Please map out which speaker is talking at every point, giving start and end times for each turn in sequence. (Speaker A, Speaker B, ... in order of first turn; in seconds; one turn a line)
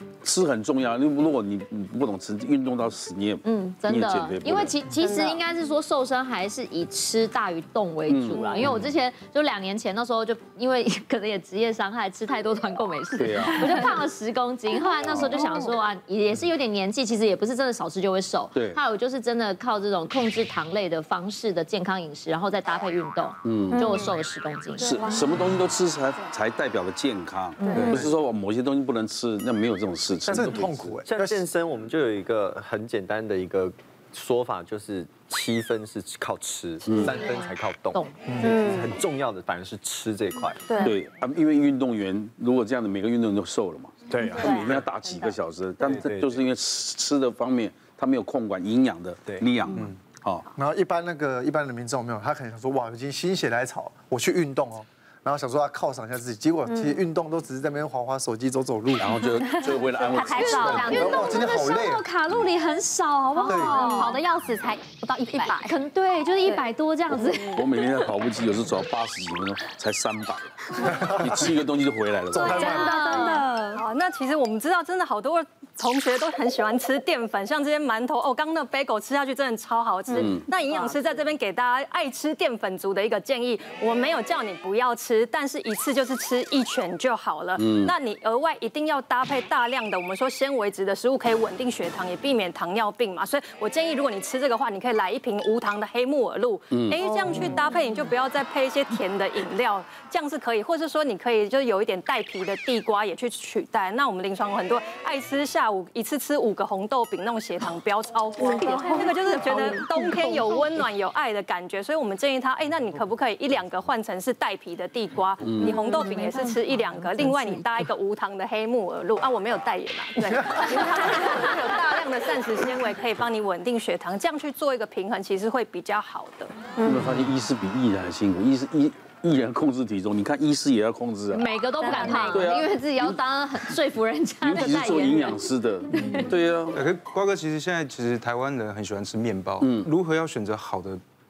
Speaker A: 0.2-4.8
Speaker B: 3.4-25.0
Speaker A: 8.1-8.9
Speaker A: 13.2-14.0
Speaker A: 15.0-15.5
Speaker A: 18.6-18.8
Speaker A: 23.4-24.1
Speaker A: 24.8-31.0
Speaker C: 27.8-28.2
Speaker C: 30.3-31.4
Speaker D: 30.4-40.9
Speaker A: 36.9-37.1
Speaker B: 36.9-38.2
Speaker C: 38.3-38.5
Speaker A: 40.8-50.5
Speaker D: 44.1-44.9
Speaker D: 45.8-46.4
Speaker C: 50.5-59.2
Speaker A: 59.0-61.2
Speaker B: 60.2-64.5
Speaker C: 60.5-62.1
Speaker E: 63.3-64.2
Speaker C: 63.5-63.8
Speaker B: 65.2-67.8
Speaker A: 67.2-72.7
Speaker C: 70.8-71.5
Speaker C: 72.3-73.0
Speaker B: 72.4-73.8
Speaker E: 72.5-126.6
Speaker A: 80.1-80.5
Speaker A: 87.6-87.9
Speaker A: 96.7-97.5
Speaker B: 108.5-110.3
Speaker A: 115.4-115.8
Speaker B: 115.6-117.6
Speaker A: 126.8-131.5
Speaker B: 131.3-136.3
Speaker A: 132.0-133.2
Speaker E: 132.0-132.5
Speaker A: 134.4-136.8
Speaker F: 135.9-141.0
Speaker A: 139.6-139.9